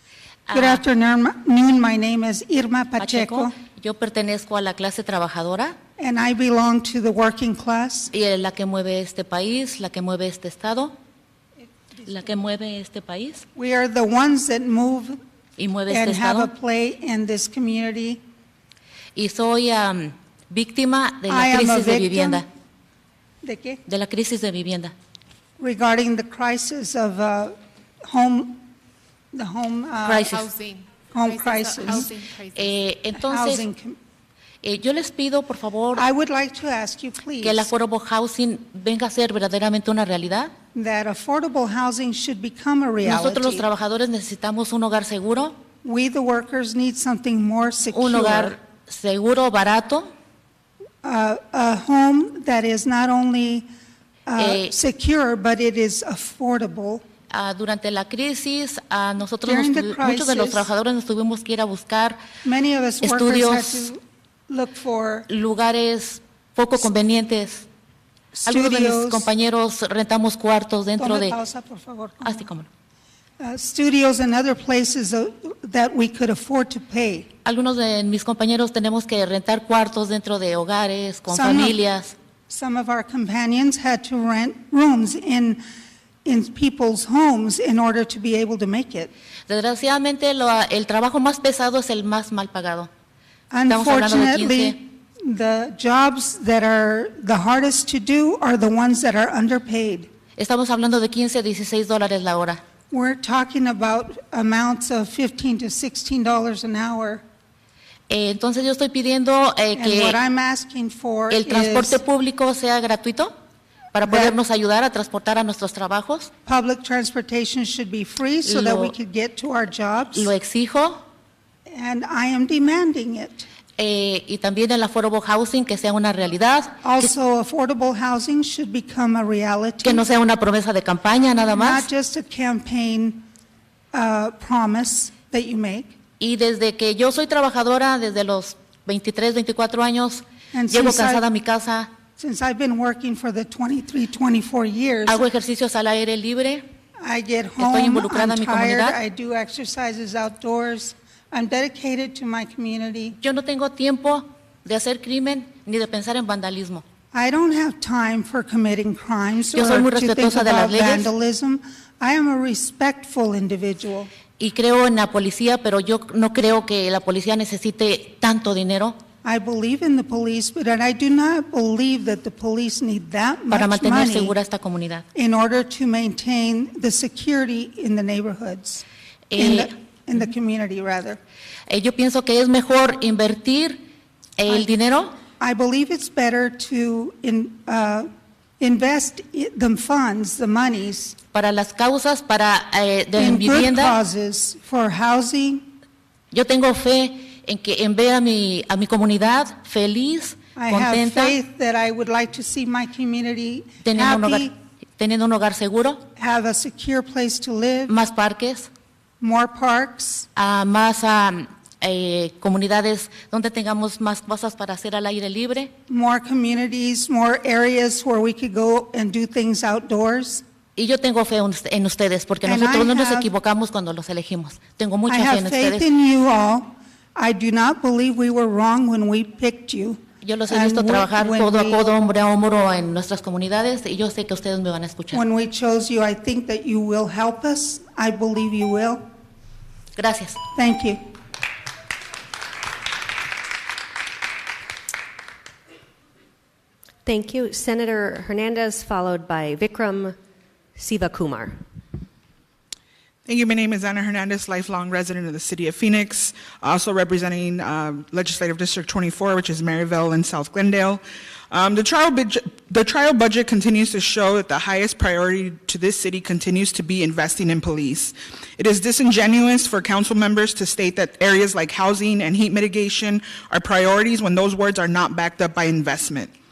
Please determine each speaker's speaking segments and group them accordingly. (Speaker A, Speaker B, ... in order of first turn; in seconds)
Speaker A: 0.5-0.8, 3.0-5.7, 8.1-10.9, 12.1-13.4, 15.6-16.5, 19.1-22.4, 23.9-24.9, 30.1-30.3, 32.5-33.6, 34.6-36.0, 37.4-40.5, 43.0-45.5, 47.9-50.1, 54.4-54.7, 57.3-62.2, 63.0-63.9, 65.3-67.7, 68.5-71.3, 72.2-72.7, 77.4-82.1, 89.5-92.9, 93.7-94.8, 100.4-102.6, 108.1-110.2, 111.3-113.3, 113.9-116.3, 118.4-118.9, 120.1-121.0, 123.8-127.1, 129.8-131.9, 136.2-141.9, 145.1-146.6, 147.6-148.9, 153.2-156.8, 159.5-161.1, 164.4-169.0, 173.5-175.0, 179.3-179.7, 181.7-183.8, 184.4-185.1, 191.3-194.0, 196.3-201.3, 203.8-206.0, 207.9-208.7, 210.3-215.7, 220.8-225.8, 230.2-235.2, 239.9-240.4
Speaker B: 0.5-3.5, 6.0-8.1, 11.6-12.3, 13.5-15.2, 15.9-18.2, 21.3-22.4, 23.4-23.8, 25.6-28.7, 29.3-30.4, 31.1-32.1, 33.2-34.0, 35.9-37.7, 40.7-43.7, 45.8-48.5, 51.0-53.7, 54.3-57.0, 59.4-60.7, 62.4-65.3, 68.3-69.3, 71.0-72.5, 73.4-77.3, 81.3-81.8, 82.5-85.6, 86.2-89.1, 93.5-100.1, 102.9-107.2, 109.8-112.0, 114.0-114.3, 116.5-120.3, 121.7-123.5, 126.8-130.0, 131.5-133.2, 133.9-135.9, 140.5-141.2, 142.2-145.2, 147.0-153.2, 157.1-164.1, 169.2-174.3, 175.1-178.8, 179.3-181.2, 185.4-188.1, 188.6-191.2, 193.2-195.7, 200.6-204.5, 206.2-207.9, 209.2-210.3, 215.9-220.4, 222.4-223.3, 225.1-231.8, 235.1-239.0, 240.5-241.0
Speaker C: 30.1-32.8
Speaker D: 247.0-250.2, 250.8-251.6
Speaker E: 253.2-276.3